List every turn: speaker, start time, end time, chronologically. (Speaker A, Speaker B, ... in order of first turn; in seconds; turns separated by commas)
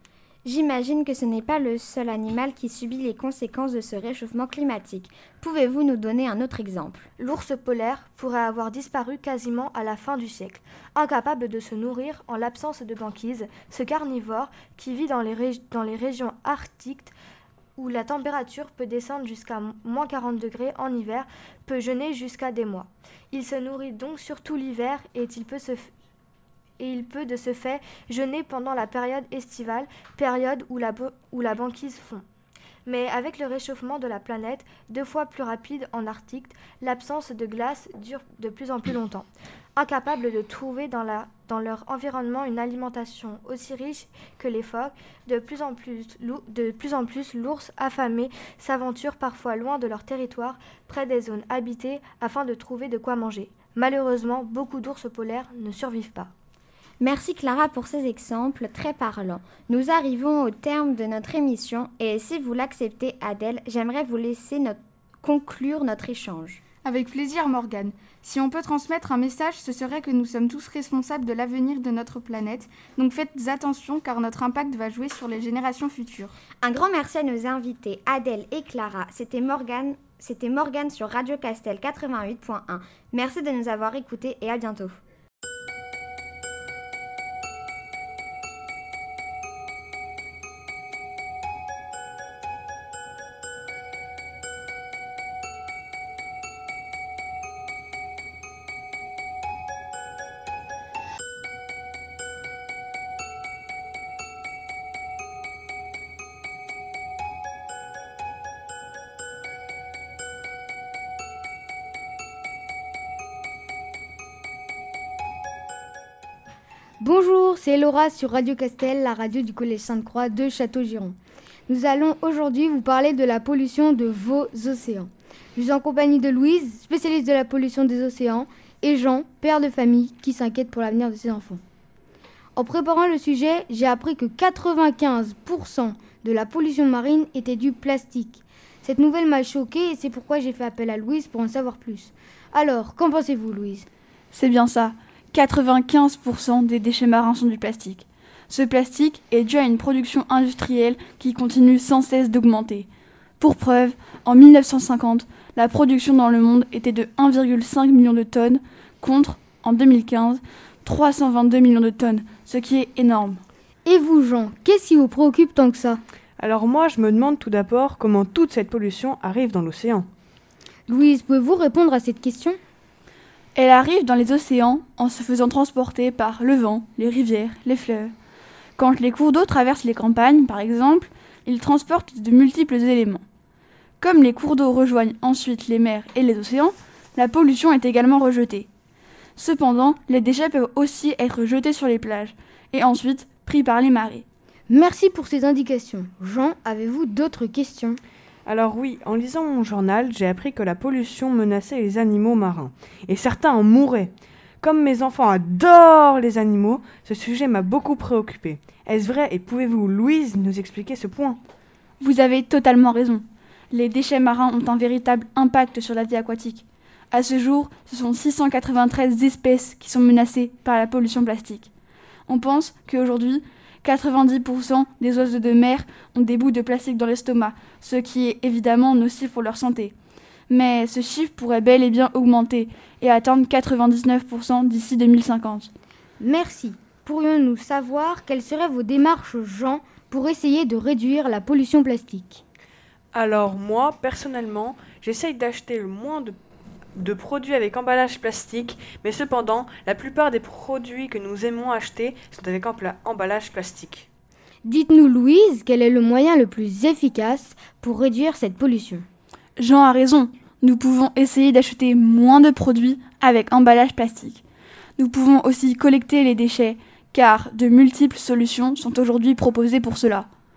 Speaker A: 0.5-7.1, Speaker B: 7.2-17.1, Speaker B: 17.8-25.9, Speaker B: 26.8-32.2, Speaker B: 32.9-56.3, Speaker A: 57.0-66.6, Speaker C: 66.9-76.3, Speaker A: 76.6-85.0, Speaker D: 117.0-121.2, Speaker D: 121.7-131.6, Speaker D: 132.6-143.9, Speaker E: 144.3-152.9, Speaker E: 153.4-163.4, Speaker D: 163.8-166.0, Speaker F: 166.4-170.1, Speaker D: 170.9-172.6, Speaker E: 173.6-178.1, Speaker E: 178.8-183.2, Speaker E: 184.0-188.7, Speaker E: 189.4-194.2, Speaker D: 194.7-198.0, Speaker F: 198.4-211.4, Speaker E: 212.0-221.7, Speaker E: 222.3-229.9, Speaker E: 230.5-235.7, Speaker D: 236.2-242.4, Speaker F: 243.1-246.4, Speaker F: 246.9-254.1, Speaker D: 254.7-259.1, Speaker E: 259.6-264.4, Speaker E: 265.0-270.3